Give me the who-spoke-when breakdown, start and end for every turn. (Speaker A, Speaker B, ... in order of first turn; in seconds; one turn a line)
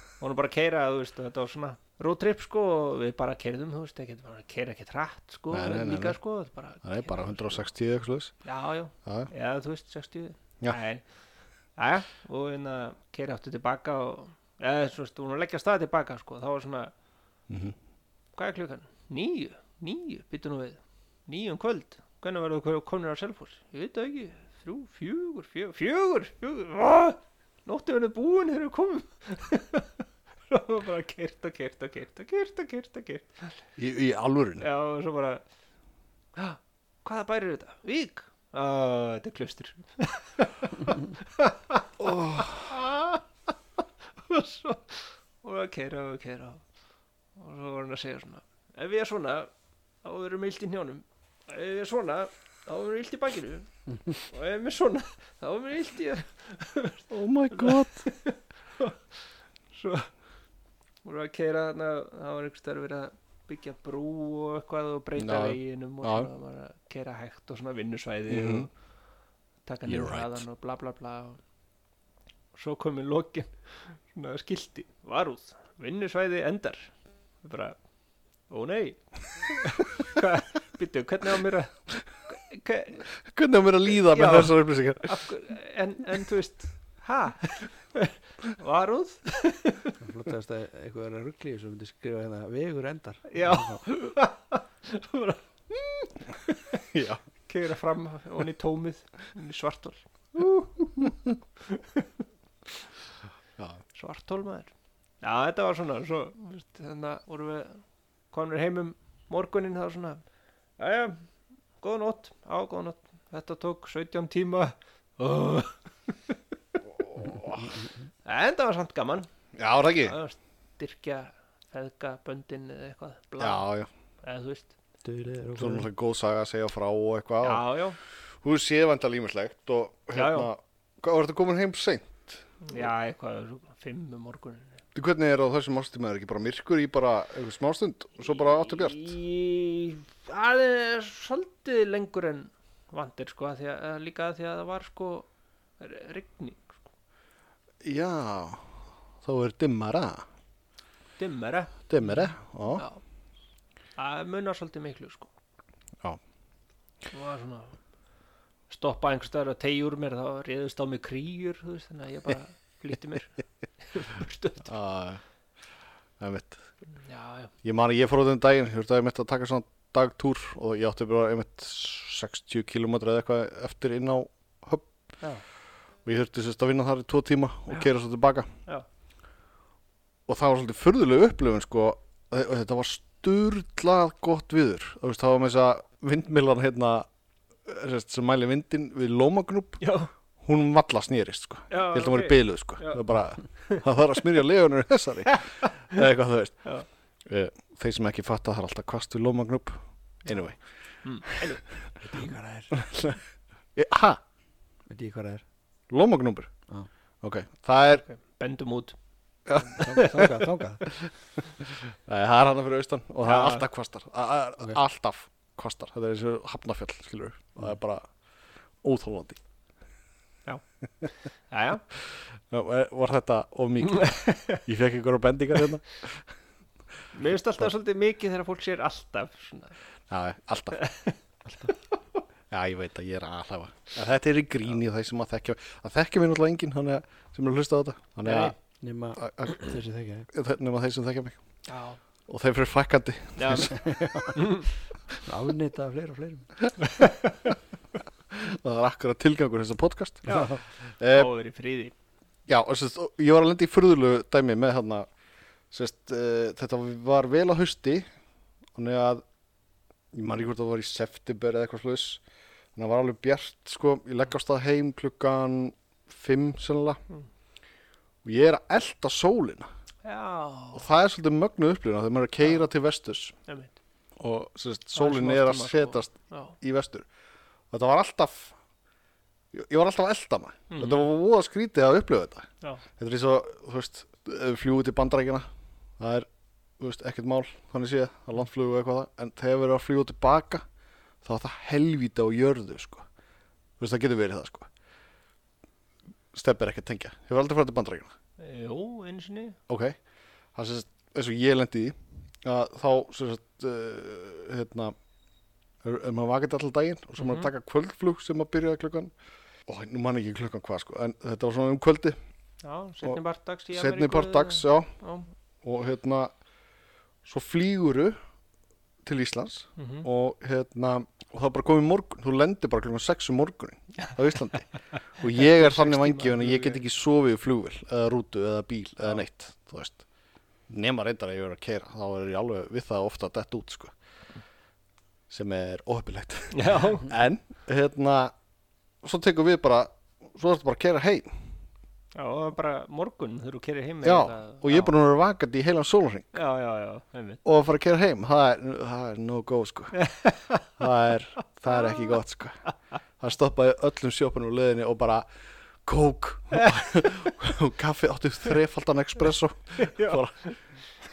Speaker A: 0.2-7.6
Speaker B: 5.5-6.2
Speaker B: 6.8-8.3
Speaker A: 8.4-11.0
Speaker A: 11.8-16.9
Speaker B: 17.5-17.7
Speaker A: 18.3-33.5
Speaker B: 33.8-34.6
Speaker A: 34.6-35.4
Speaker A: 36.3-43.2
Speaker B: 42.0-42.6
Speaker A: 44.2-46.6
Speaker A: 47.4-49.5
Speaker A: 50.0-59.0
Speaker B: 57.1-58.1
Speaker A: 59.7-60.1
Speaker A: 61.0-68.7
Speaker B: 65.2-66.3
Speaker B: 68.3-68.7
Speaker A: 69.7-71.4
Speaker B: 69.8-70.4
Speaker A: 72.5-76.9
Speaker A: 77.4-77.8
Speaker A: 78.5-81.7
Speaker A: 82.3-83.1
Speaker B: 83.2-85.2
Speaker A: 84.0-89.9
Speaker C: 90.0-93.8
Speaker A: 93.3-96.8
Speaker B: 96.9-97.2
Speaker A: 97.5-101.1
Speaker B: 100.3-101.3
Speaker A: 101.6-102.2
Speaker A: 103.9-110.2
Speaker A: 110.8-111.2
Speaker A: 111.8-116.4
Speaker B: 117.1-117.8
Speaker A: 118.2-119.3
Speaker B: 119.5-120.2
Speaker A: 120.0-123.6
Speaker B: 123.4-123.9
Speaker A: 124.2-124.7
Speaker C: 125.0-125.9
Speaker B: 125.6-127.7
Speaker A: 127.4-128.0
Speaker B: 128.4-132.4
Speaker A: 130.1-130.5
Speaker A: 132.6-134.8
Speaker B: 134.9-139.1
Speaker A: 138.4-145.3
Speaker A: 145.8-146.9
Speaker B: 147.8-148.7
Speaker B: 149.2-150.2
Speaker A: 151.2-153.0
Speaker B: 151.9-152.8
Speaker A: 154.0-155.3
Speaker A: 157.1-157.8
Speaker A: 158.7-164.7
Speaker B: 164.6-165.2
Speaker B: 166.2-166.7
Speaker A: 167.0-167.5
Speaker B: 167.6-174.9
Speaker B: 176.0-178.5
Speaker B: 180.3-187.1
Speaker B: 187.6-189.8
Speaker A: 189.8-190.1
Speaker B: 190.4-196.7
Speaker A: 191.7-193.0
Speaker A: 195.3-196.0
Speaker B: 197.2-200.6
Speaker A: 201.0-201.6
Speaker B: 201.3-201.6
Speaker C: 202.0-202.8
Speaker B: 202.8-203.2
Speaker B: 203.8-204.2
Speaker C: 204.9-205.4
Speaker B: 205.9-206.5
Speaker B: 207.2-208.0
Speaker A: 208.0-208.9
Speaker B: 209.5-209.8
Speaker A: 209.6-210.3
Speaker C: 209.8-210.8
Speaker B: 211.8-218.1
Speaker A: 213.2-213.6
Speaker B: 218.8-219.4
Speaker A: 221.5-221.8
Speaker B: 222.5-226.2
Speaker A: 223.8-224.6
Speaker A: 227.1-229.8
Speaker B: 230.1-230.8
Speaker A: 230.8-231.2
Speaker C: 231.4-231.7
Speaker B: 232.5-238.5
Speaker A: 238.2-238.5
Speaker C: 238.8-240.3
Speaker B: 239.2-239.7
Speaker B: 240.3-241.4
Speaker A: 241.7-242.0
Speaker B: 242.3-243.8
Speaker A: 243.4-243.8
Speaker C: 243.7-244.5
Speaker A: 244.3-244.7
Speaker C: 245.2-246.5
Speaker B: 248.3-250.4
Speaker A: 250.2-251.9
Speaker B: 251.0-251.3
Speaker B: 252.5-255.1
Speaker B: 255.7-258.1
Speaker B: 258.7-259.2
Speaker B: 260.1-262.2
Speaker B: 262.7-267.0
Speaker B: 268.2-269.7
Speaker A: 270.0-270.9
Speaker B: 270.7-273.3
Speaker A: 273.5-273.7
Speaker B: 274.2-277.1
Speaker A: 274.9-276.6
Speaker B: 277.7-278.5
Speaker B: 279.5-285.5
Speaker A: 280.7-281.1
Speaker B: 286.0-286.3
Speaker B: 286.8-290.6
Speaker B: 291.2-293.1
Speaker B: 293.8-294.7
Speaker B: 296.3-298.1
Speaker A: 298.4-299.6
Speaker B: 299.7-300.0
Speaker B: 300.5-304.9
Speaker B: 305.8-309.1
Speaker A: 307.2-307.5
Speaker B: 309.7-312.2
Speaker A: 312.6-315.3
Speaker B: 313.7-314.9
Speaker B: 315.6-316.3
Speaker B: 317.2-318.1
Speaker B: 319.0-330.0
Speaker A: 319.8-320.1
Speaker A: 324.9-326.8
Speaker B: 330.7-333.9
Speaker B: 335.3-338.3
Speaker A: 336.5-337.1
Speaker B: 339.0-341.4
Speaker A: 342.1-344.9
Speaker B: 344.0-346.4
Speaker A: 346.3-347.4
Speaker B: 347.4-350.0
Speaker A: 350.0-350.6
Speaker B: 350.8-352.6
Speaker A: 351.7-352.2
Speaker B: 353.2-355.3
Speaker B: 355.8-360.4
Speaker A: 356.5-357.3
Speaker A: 359.8-360.6